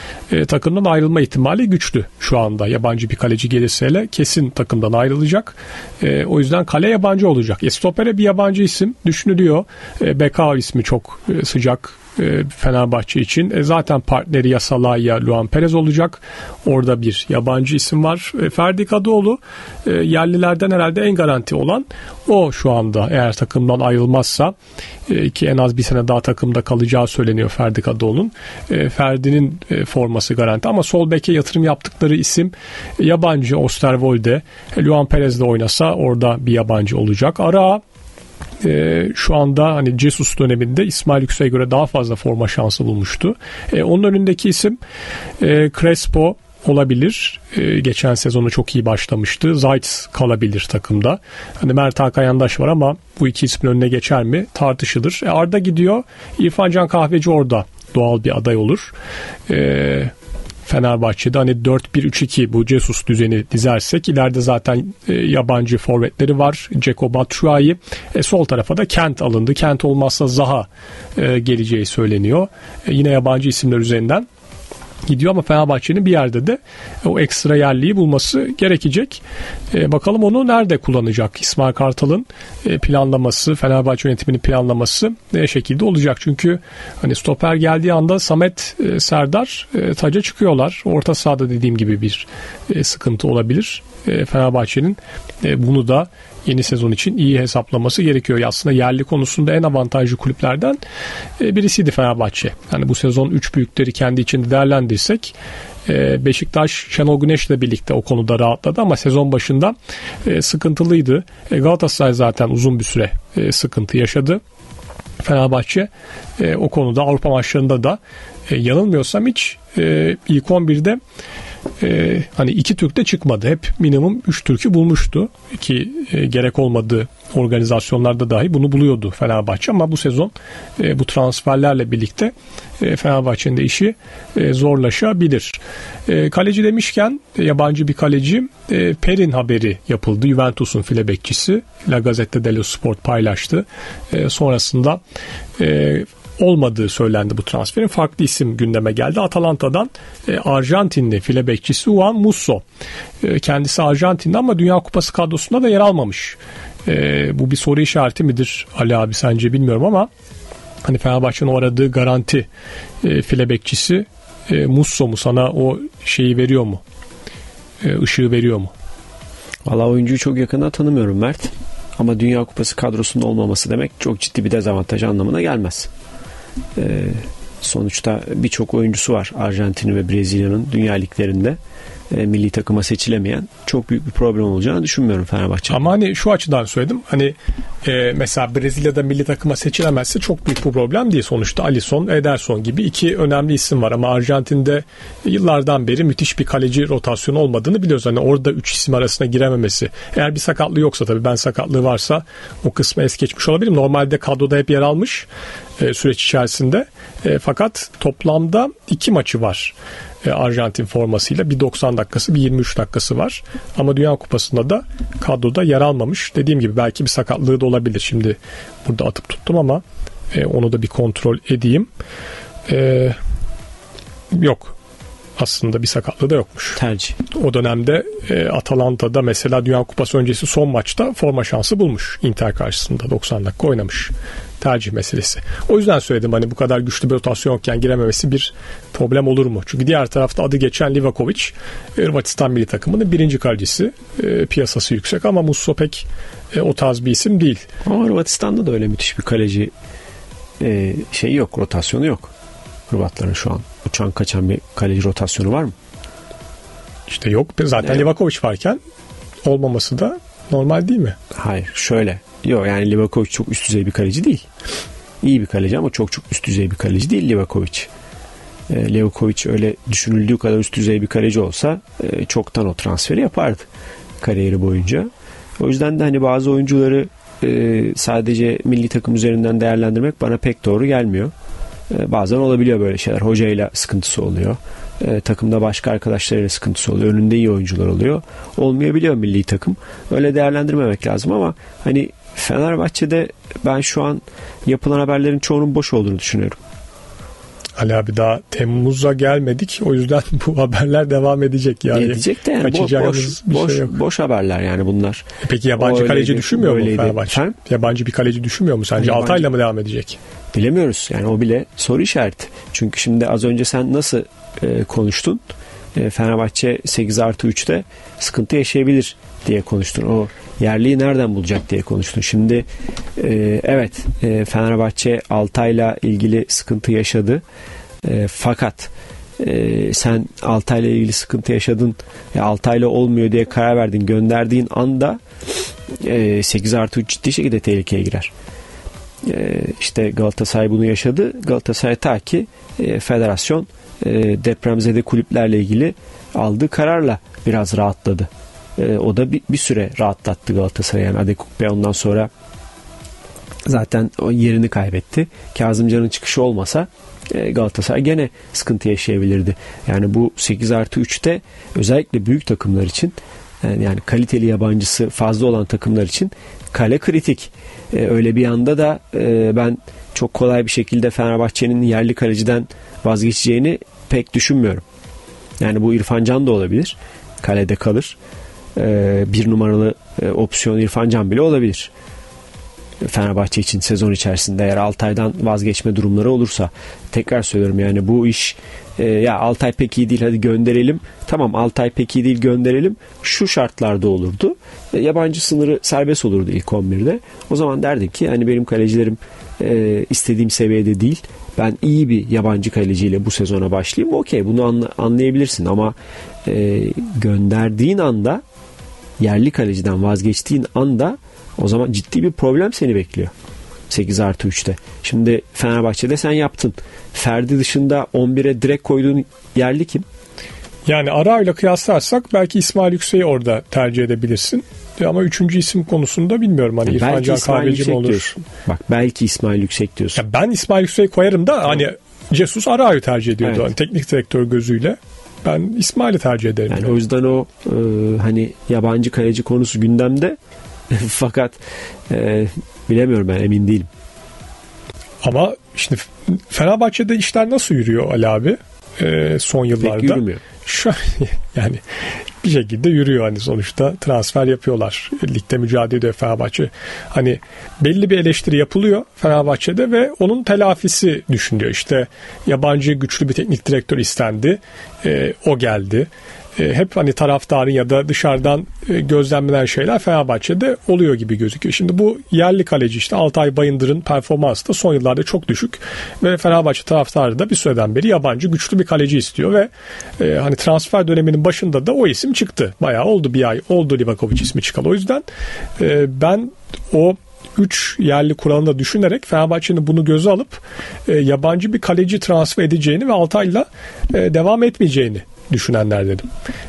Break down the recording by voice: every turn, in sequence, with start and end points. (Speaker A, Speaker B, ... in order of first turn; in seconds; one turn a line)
Speaker A: 0.3-24.6
Speaker A: 25.1-37.8
Speaker A: 38.6-44.8
Speaker A: 45.4-58.9
Speaker A: 59.5-60.1
Speaker A: 60.7-74.3
Speaker A: 75.1-100.8
Speaker A: 101.4-105.3
Speaker A: 105.9-114.4
Speaker A: 115.2-121.0
Speaker A: 121.8-145.0
Speaker A: 145.6-152.6
Speaker A: 153.2-160.1
Speaker A: 160.8-162.5
Speaker A: 163.0-166.8
Speaker A: 167.8-168.7
Speaker B: 169.7-175.9
Speaker B: 176.8-181.6
Speaker B: 182.1-185.9
Speaker A: 185.7-205.3
Speaker A: 205.8-221.9
Speaker A: 222.7-223.2
Speaker A: 224.3-224.8
Speaker A: 225.4-226.8
Speaker B: 226.8-227.2
Speaker A: 227.3-247.7
Speaker B: 247.8-249.7
Speaker B: 250.6-252.3
Speaker B: 252.9-255.7
Speaker A: 257.1-258.8
Speaker B: 257.8-258.1
Speaker A: 259.4-261.2
Speaker B: 261.3-264.5
Speaker B: 265.2-267.9
Speaker B: 268.7-273.7
Speaker B: 274.2-281.3
Speaker B: 281.9-296.6
Speaker A: 297.8-304.0
Speaker B: 301.9-307.6
Speaker A: 305.4-310.2
Speaker B: 309.0-309.5
Speaker B: 310.5-315.4
Speaker B: 315.9-322.7
Speaker B: 323.2-327.4
Speaker B: 328.0-338.3
Speaker B: 339.2-352.3
Speaker B: 353.7-374.8
Speaker B: 375.6-378.2
Speaker B: 378.8-381.9
Speaker B: 383.0-408.4
Speaker B: 409.2-413.3
Speaker B: 413.9-420.1
Speaker A: 420.9-428.3
Speaker B: 426.8-430.2
Speaker A: 430.1-437.0
Speaker B: 433.4-433.7
Speaker B: 436.7-440.4
Speaker B: 440.9-441.6
Speaker B: 442.1-443.9
Speaker A: 445.2-451.8
Speaker B: 449.8-450.4
Speaker A: 452.4-485.2
Speaker A: 485.8-496.3